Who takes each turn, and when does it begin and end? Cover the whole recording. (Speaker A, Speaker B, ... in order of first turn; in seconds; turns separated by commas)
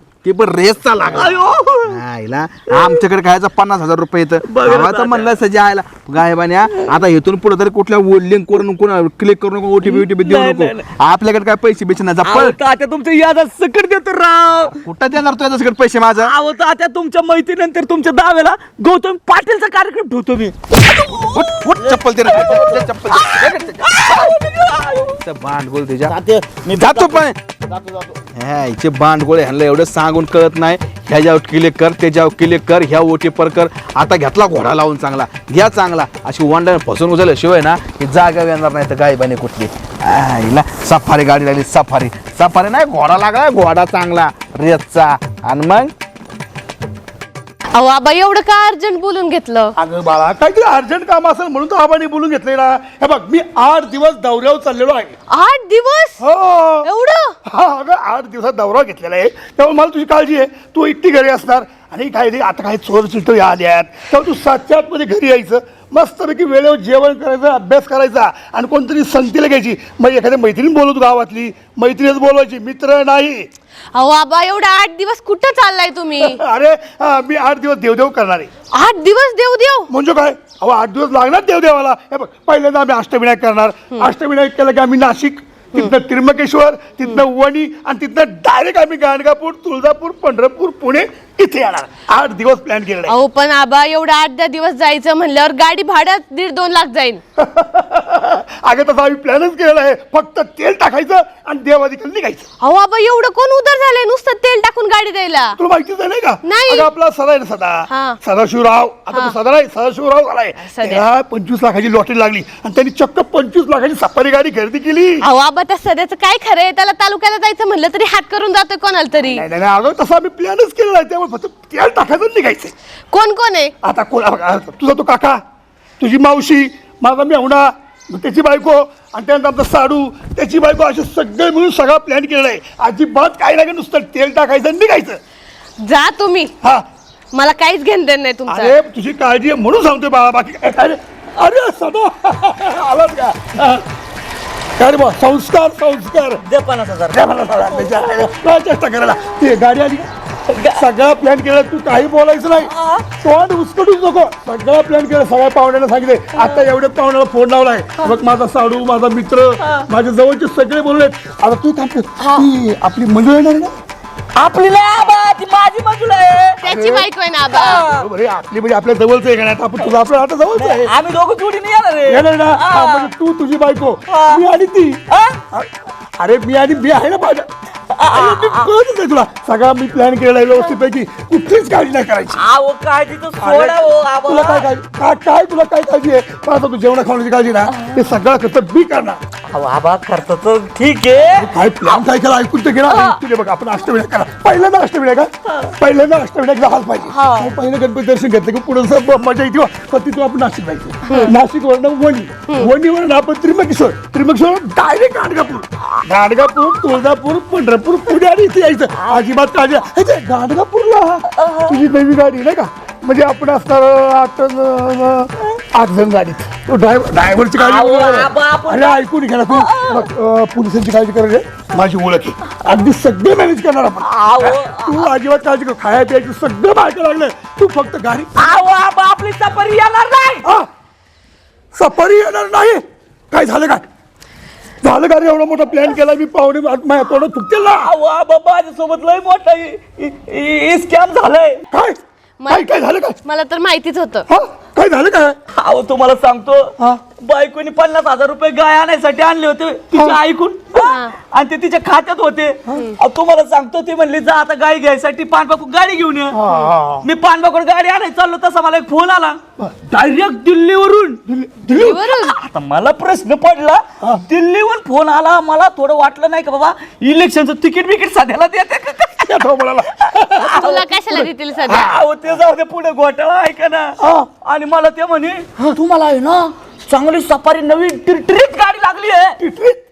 Speaker A: 0.2-12.6, Speaker B: 1.1-2.0, Speaker B: 4.5-5.3, Speaker B: 9.8-10.8, Speaker B: 12.2-14.8, Speaker A: 14.7-16.3, Speaker B: 16.2-25.2, Speaker A: 21.3-24.4, Speaker A: 25.1-26.1, Speaker C: 26.0-28.2, Speaker A: 26.8-27.4, Speaker A: 28.3-45.9, Speaker D: 47.7-49.7, Speaker E: 49.8-55.1, Speaker D: 55.3-56.2, Speaker E: 56.2-56.9, Speaker D: 56.8-57.3, Speaker E: 57.5-73.5, Speaker D: 73.9-76.4, Speaker E: 76.2-78.5, Speaker D: 78.7-79.9, Speaker E: 79.9-93.1, Speaker D: 93.1-97.2, Speaker E: 97.4-102.5, Speaker D: 102.6-105.6, Speaker E: 105.6-115.2, Speaker D: 106.4-106.9, Speaker D: 107.9-108.2, Speaker D: 109.1-109.4, Speaker D: 110.6-111.0, Speaker D: 115.2-119.4, Speaker E: 119.3-122.7, Speaker D: 123.1-123.7, Speaker E: 123.8-125.4, Speaker E: 126.0-135.2, Speaker D: 135.8-136.5, Speaker D: 137.3-138.8, Speaker E: 138.5-143.8, Speaker E: 144.8-146.4, Speaker B: 146.4-148.1, Speaker E: 147.1-150.1, Speaker B: 150.5-150.8, Speaker E: 150.7-163.7, Speaker B: 152.6-153.1, Speaker B: 156.4-156.7, Speaker B: 162.2-162.5, Speaker B: 164.4-166.6, Speaker D: 166.6-167.9, Speaker E: 166.7-167.1, Speaker B: 167.5-168.0, Speaker E: 167.6-170.9, Speaker B: 170.5-173.1, Speaker E: 172.1-175.0, Speaker B: 174.1-174.4, Speaker B: 175.1-175.4, Speaker E: 175.5-177.5, Speaker B: 177.9-178.7, Speaker E: 178.1-182.4, Speaker B: 182.3-184.7, Speaker E: 183.4-189.2, Speaker B: 189.5-192.0, Speaker E: 191.4-228.4, Speaker B: 192.9-193.2, Speaker B: 197.1-197.5, Speaker D: 201.1-201.3, Speaker B: 209.0-209.2, Speaker B: 211.3-211.8, Speaker B: 217.6-220.1, Speaker B: 224.0-225.1, Speaker B: 228.3-230.5, Speaker E: 231.7-233.8, Speaker E: 234.8-237.9, Speaker B: 237.8-241.6, Speaker E: 241.7-242.0, Speaker D: 242.4-244.3, Speaker E: 242.5-243.2, Speaker E: 244.3-245.3, Speaker B: 245.5-256.4, Speaker D: 250.8-251.1, Speaker E: 256.3-257.1, Speaker B: 257.0-261.2, Speaker E: 261.3-262.0, Speaker D: 261.7-262.3, Speaker B: 261.8-269.4, Speaker E: 269.2-270.1, Speaker B: 270.0-270.8, Speaker D: 270.4-271.9, Speaker B: 271.6-279.4, Speaker E: 274.0-274.3, Speaker E: 279.4-279.8